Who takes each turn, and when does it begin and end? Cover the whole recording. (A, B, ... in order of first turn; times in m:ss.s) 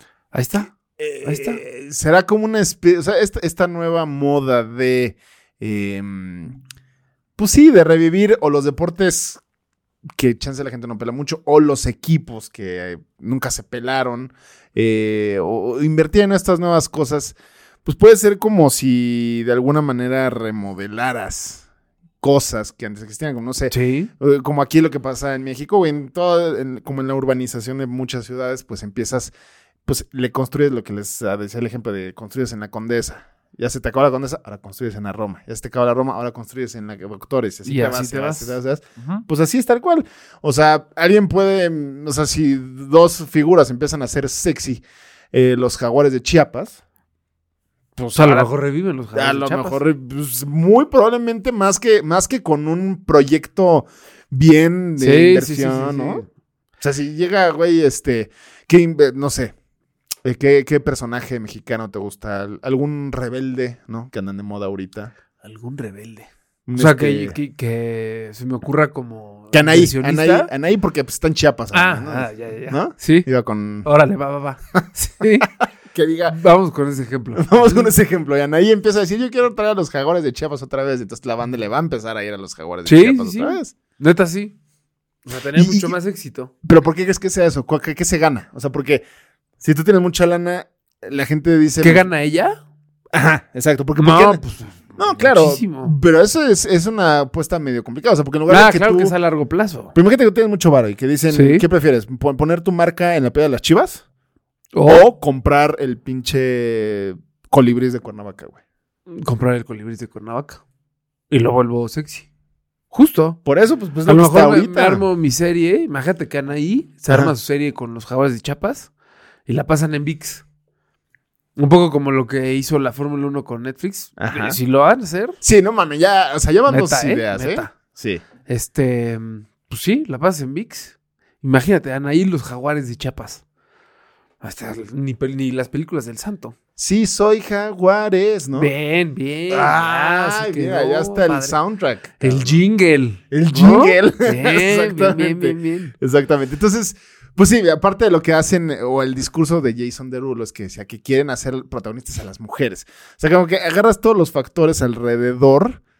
0:00.3-0:01.6 A
0:01.0-0:06.6 B
0:07.4-0:09.4 B
0:10.2-0:21.7 B
0:22.2-0:29.3 B
0:23.7-0:24.1 A
0:29.8-0:46.8 B
0:37.6-0:39.2 A
0:48.0-0:48.5 B
0:48.2-0:49.8 A
0:49.1-0:56.2 B
0:55.0-0:56.3 A
0:56.8-0:59.5 B
1:00.2-1:05.1 B
1:05.4-1:10.5 A
1:06.7-1:07.4 B
1:09.5-1:13.9 B
1:11.7-1:13.3 A
1:13.8-1:15.5 A
1:15.4-1:16.4 B
1:16.3-1:17.9 A
1:17.4-1:23.7 B
1:22.8-1:24.6 A
1:25.3-1:26.5 A
1:25.6-1:26.0 B
1:26.6-1:29.0 B
1:29.6-1:32.1 B
1:31.8-1:32.6 A
1:33.1-1:34.4 B
1:34.0-1:36.0 A
1:35.0-1:39.2 B
1:38.5-1:40.0 A
1:39.9-1:44.0 B
1:41.3-1:41.6 A
1:44.7-1:45.1 A
1:44.9-1:48.6 B
1:49.1-1:50.6 A
1:51.3-1:52.3 A
1:52.9-1:53.4 A
1:53.4-1:55.0 B
1:54.1-1:58.9 A
1:59.5-2:00.4 A
2:01.6-2:05.4 A
2:04.2-2:04.6 B
2:05.4-2:08.2 B
2:06.7-2:07.7 A
2:08.5-2:13.4 A
2:14.4-2:16.6 A
2:16.8-2:18.7 B
2:18.6-2:21.6 A
2:19.5-2:22.6 B
2:22.2-2:25.9 A
2:23.3-2:35.8 B